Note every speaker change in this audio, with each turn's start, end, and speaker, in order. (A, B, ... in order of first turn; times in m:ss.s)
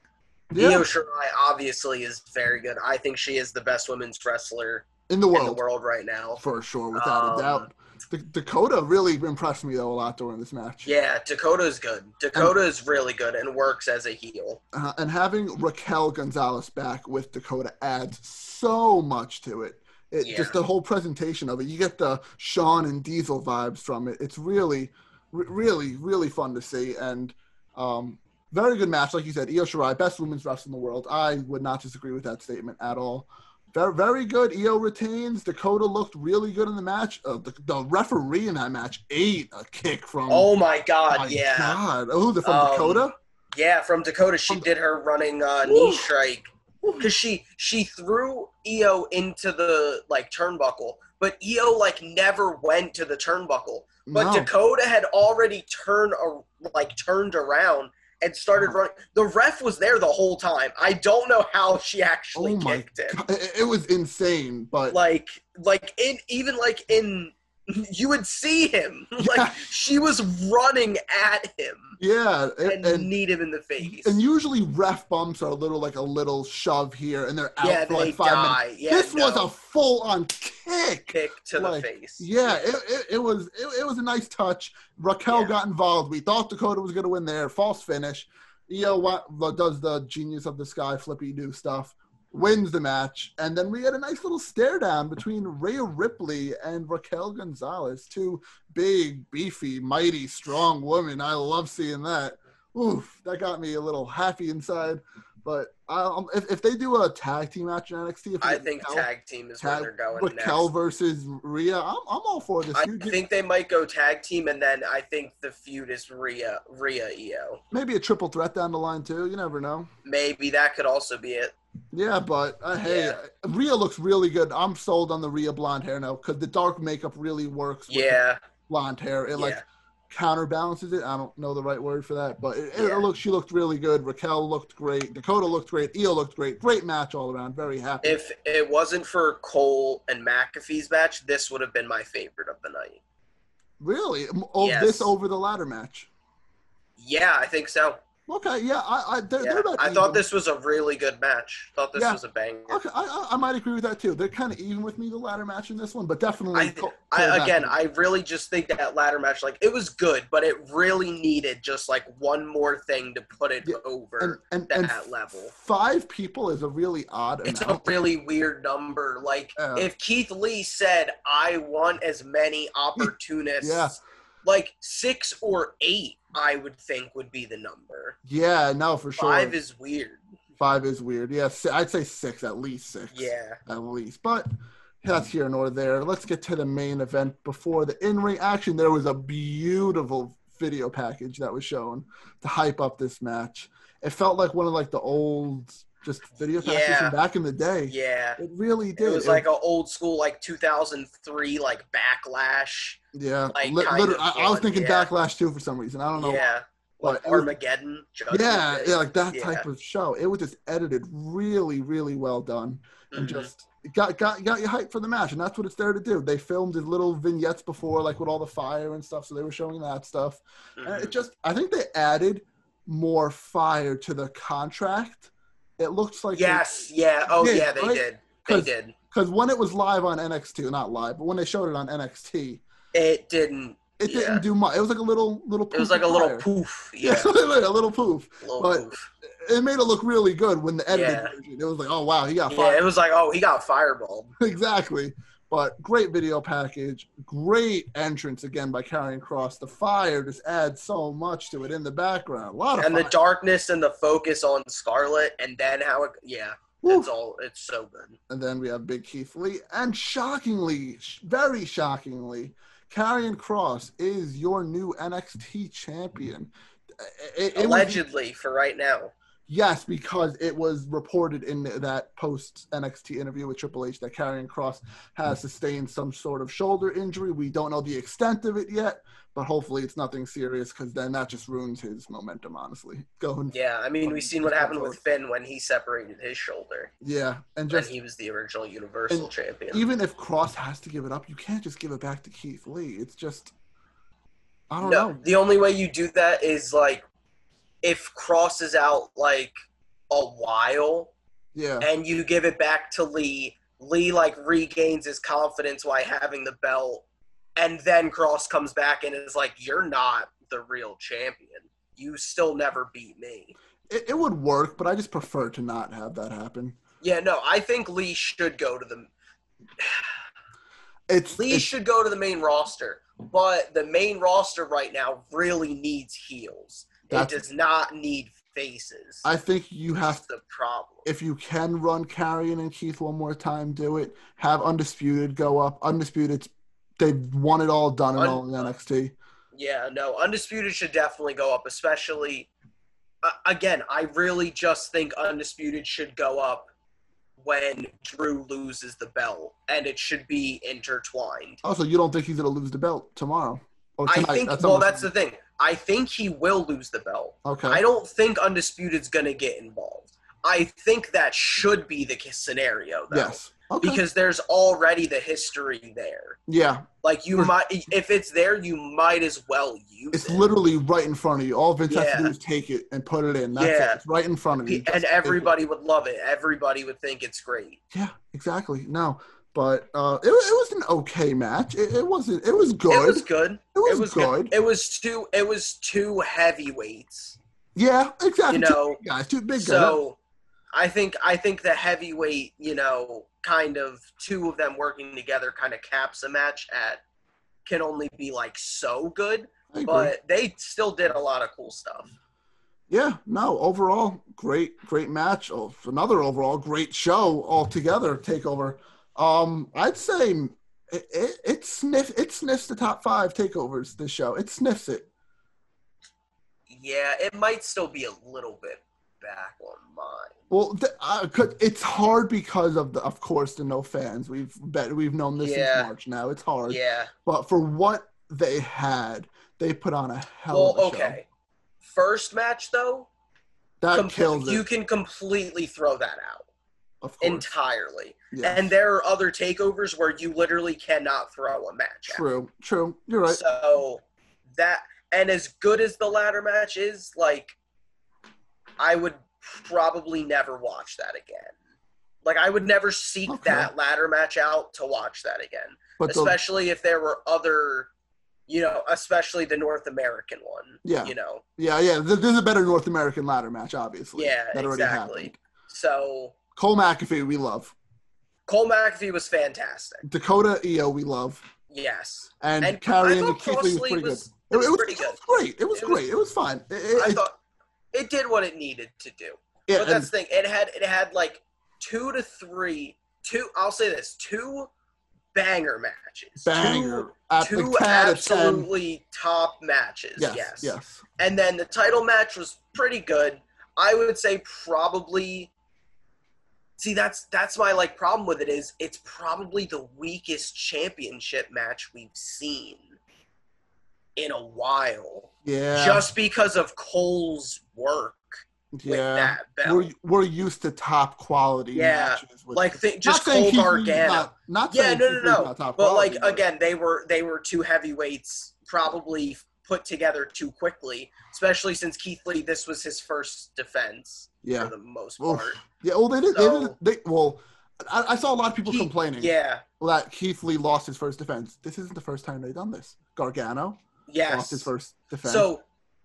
0:00.5-0:00.9 A
0:00.5-0:06.4 B
0:05.1-0:05.6 A
0:06.4-0:10.9 A
0:06.9-0:07.7 B
0:10.8-0:14.6 B
0:14.7-0:40.5 A
0:20.2-0:20.6 B
0:40.3-0:41.8 B
0:41.1-0:43.1 A
0:42.4-0:46.5 B
0:45.7-0:46.1 A
0:47.0-1:03.2 B
0:54.1-0:54.5 A
1:02.3-1:05.0 A
1:04.9-1:12.0 B
1:09.2-1:09.7 A
1:12.0-1:13.1 A
1:12.6-1:14.2 B
1:13.8-1:49.1 A
1:17.6-1:19.5 B
1:21.1-1:22.7 B
1:25.3-1:25.5 B
1:48.4-1:50.7 B
1:49.6-1:53.2 A
1:52.7-1:57.6 B
1:57.7-1:59.9 A
2:00.0-2:01.5 B
2:01.9-2:18.2 A
2:02.8-2:03.2 B
2:07.9-2:08.4 B
2:09.4-2:09.6 B
2:12.8-2:13.1 B
2:18.0-2:23.0 B
2:23.8-2:26.1 A
2:24.6-2:25.1 B
2:27.0-2:28.0 B
2:28.3-2:30.2 A
2:29.4-2:32.8 B
2:32.0-2:37.8 A
2:36.5-2:45.5 B
2:43.6-2:47.9 A
2:47.4-2:58.2 B
2:49.6-2:49.9 A
2:53.0-2:54.0 A
2:58.2-2:59.6 A
2:59.2-3:00.2 B
3:00.6-3:04.5 A
3:03.1-3:03.6 B
3:05.0-3:19.5 A
3:16.6-3:17.2 B
3:17.9-3:18.4 B
3:19.0-3:23.0 B
3:23.1-3:26.4 A
3:23.5-3:25.1 B
3:26.2-3:29.6 B
3:27.0-3:27.5 A
3:28.3-3:46.7 A
3:33.1-3:33.5 B
3:40.8-3:41.1 B
3:46.3-3:48.9 B
3:47.4-3:52.6 A
3:52.9-3:54.4 B
3:54.0-3:56.5 A
3:55.7-3:57.3 B
3:57.0-4:02.8 A
3:58.4-3:59.1 B
4:00.9-4:01.3 B
4:02.5-4:04.3 B
4:04.4-4:13.1 A
4:12.8-4:18.2 B
4:16.8-4:17.1 A
4:18.3-4:28.0 A
4:27.5-4:29.1 B
4:29.5-4:45.0 A
4:43.5-4:46.9 B
4:47.0-4:47.9 A
4:47.7-4:49.8 B
4:49.1-4:53.5 A
4:54.7-4:55.2 A
4:54.8-4:57.0 B
4:57.8-4:59.5 B
5:00.1-5:01.1 B
5:01.5-5:01.9 A
5:01.8-5:07.0 B
5:07.6-5:13.5 B
5:13.9-5:16.8 A
5:17.0-5:19.1 B
5:19.8-5:20.1 B
5:21.1-5:21.7 A
5:21.3-5:29.3 B
5:27.1-5:27.4 A
5:29.2-5:30.2 A
5:30.0-5:31.0 B
5:31.0-5:39.2 A
5:38.2-5:38.7 B
5:39.5-5:42.5 B
5:43.2-5:46.7 B
5:47.4-5:51.6 B
5:51.6-5:55.1 A
5:54.1-6:06.4 B
5:57.4-5:57.8 A
6:03.1-6:04.0 A
6:06.5-6:07.5 A
6:07.0-6:10.5 B
6:10.1-6:15.6 A
6:11.9-6:12.3 B
6:13.5-6:14.0 B
6:14.6-6:17.8 B
6:17.9-6:24.5 A
6:22.9-6:27.4 B
6:27.8-6:30.0 A
6:28.5-6:29.0 B
6:29.6-6:30.2 B
6:30.7-6:37.0 B
6:37.6-6:42.1 B
6:39.7-6:40.1 A
6:42.9-6:55.1 A
6:56.7-7:00.3 B
7:00.5-7:11.2 A
7:05.4-7:05.9 B
7:06.7-7:07.1 B
7:10.5-7:11.2 B
7:11.8-7:13.1 B
7:13.8-7:14.6 A
7:13.9-7:16.4 B
7:17.0-7:17.4 A
7:17.2-7:22.2 B
7:18.3-7:18.7 A
7:22.1-7:23.4 A
7:23.3-7:24.0 B
7:24.5-7:27.5 B
7:28.8-7:31.5 B
7:32.2-7:37.9 B
7:33.3-7:33.7 A
7:36.0-7:36.4 A
7:38.5-7:41.4 B
7:40.8-7:45.4 A
7:44.2-7:46.4 B
7:46.6-7:47.7 A
7:48.5-7:50.0 B
7:50.0-7:51.4 A
7:51.7-7:55.2 B
7:52.4-7:57.2 A
7:55.7-7:56.0 B
7:57.0-7:57.4 B
7:57.9-8:04.7 B
7:59.7-8:00.1 A
8:05.3-8:15.5 B
8:06.4-8:08.7 A
8:10.2-8:11.0 A
8:16.8-8:22.9 B
8:24.2-8:29.9 B
8:25.4-8:26.1 A
8:28.7-8:36.4 A
8:31.7-8:45.6 B
8:44.4-8:55.5 A
8:46.3-8:46.7 B
8:48.6-8:49.6 B
8:54.1-8:54.7 B
8:55.2-8:55.6 B